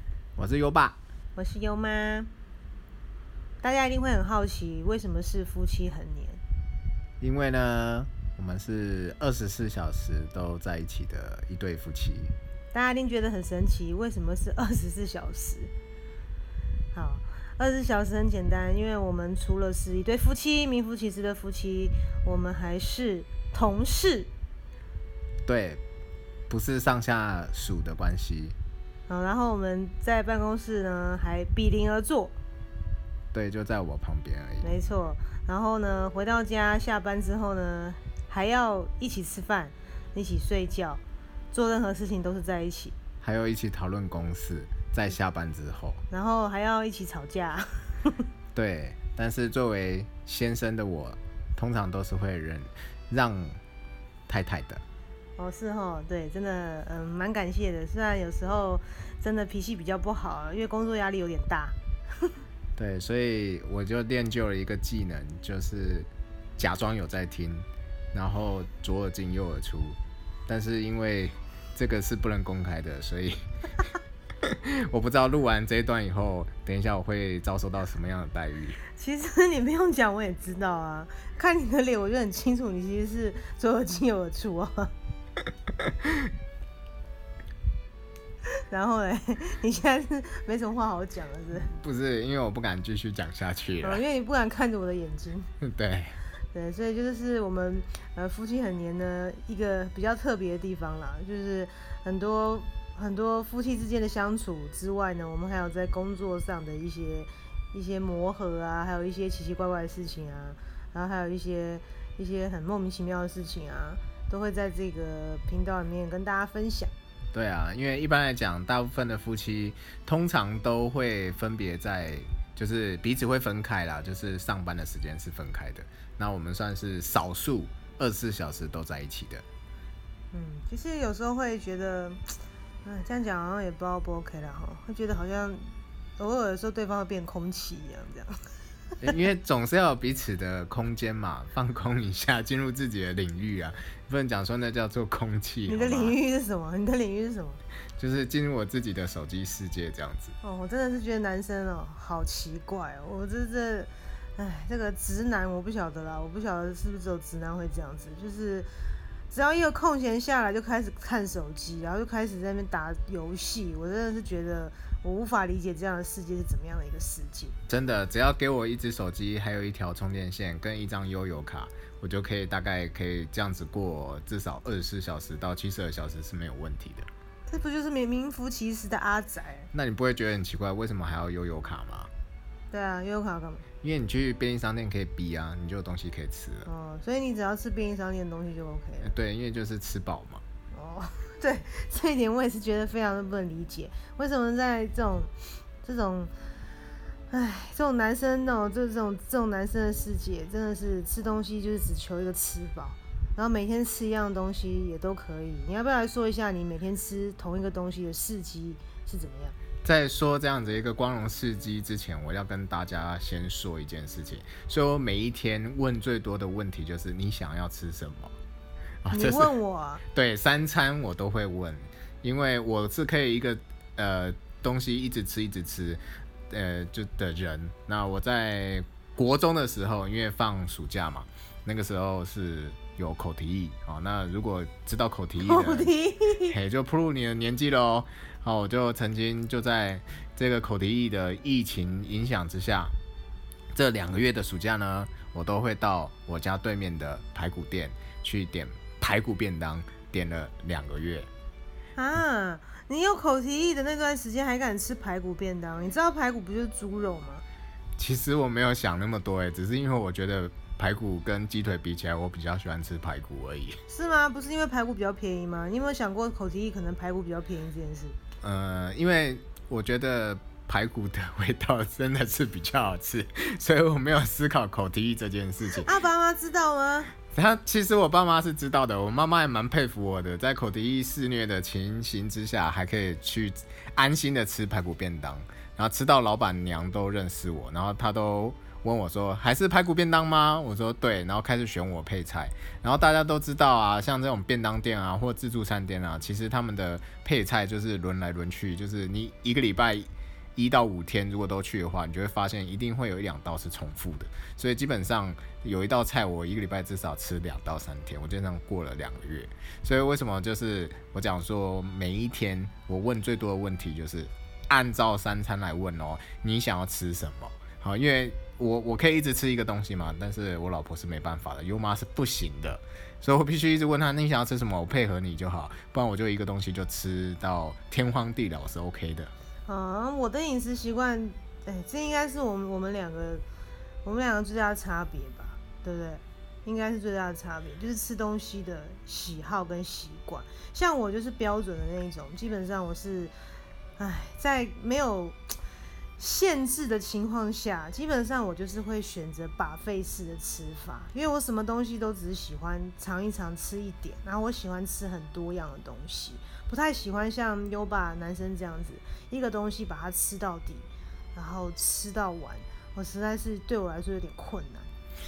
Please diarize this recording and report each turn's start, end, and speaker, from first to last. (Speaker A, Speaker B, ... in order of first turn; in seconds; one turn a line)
Speaker A: 0.4-1.0
Speaker B: 1.4-2.3
Speaker B: 3.6-6.4
Speaker A: 7.2-12.3
Speaker B: 12.7-15.7
Speaker B: 16.9-24.3
Speaker A: 25.4-25.8
Speaker A: 26.5-28.6
Speaker B: 29.1-32.3
Speaker A: 33.3-34.7
Speaker B: 34.6-41.0
Speaker B: 41.5-43.0
Speaker A: 43.2-46.0
Speaker B: 46.1-48.2
Speaker A: 48.5-53.6
Speaker A: 54.3-54.8
Speaker B: 55.4-62.4
Speaker A: 62.8-73.5
Speaker A: 74.4-78.8
Speaker B: 78.9-84.9
Speaker A: 85.8-86.3
Speaker B: 88.7-91.7
Speaker A: 91.7-94.0
Speaker B: 93.8-95.5
Speaker A: 95.6-96.2
Speaker B: 96.5-116.9
Speaker A: 117.3-129.4
Speaker B: 130.3-132.3
Speaker B: 132.8-138.5
Speaker A: 139.0-146.2
Speaker B: 145.7-147.6
Speaker A: 148.0-150.4
Speaker B: 150.4-158.7
Speaker B: 159.3-167.5
Speaker A: 167.7-177.1
Speaker B: 177.5-179.7
Speaker A: 179.7-182.1
Speaker B: 182.7-183.7
Speaker A: 183.8-186.7
Speaker B: 186.7-189.1
Speaker A: 189.0-190.4
Speaker B: 190.7-196.3
Speaker B: 197.3-209.6
Speaker A: 209.8-218.3
Speaker A: 219.0-219.5
Speaker B: 219.1-220.0
Speaker A: 220.1-235.9
Speaker B: 235.4-236.6
Speaker A: 236.5-243.0
Speaker A: 243.7-251.3
Speaker B: 252.0-257.4
Speaker A: 258.0-263.8
Speaker B: 263.9-268.2
Speaker A: 268.4-275.9
Speaker B: 275.8-277.1
Speaker A: 277.3-329.3
Speaker B: 329.7-333.4
Speaker B: 334.0-343.3
Speaker B: 344.0-345.4
Speaker B: 346.2-364.9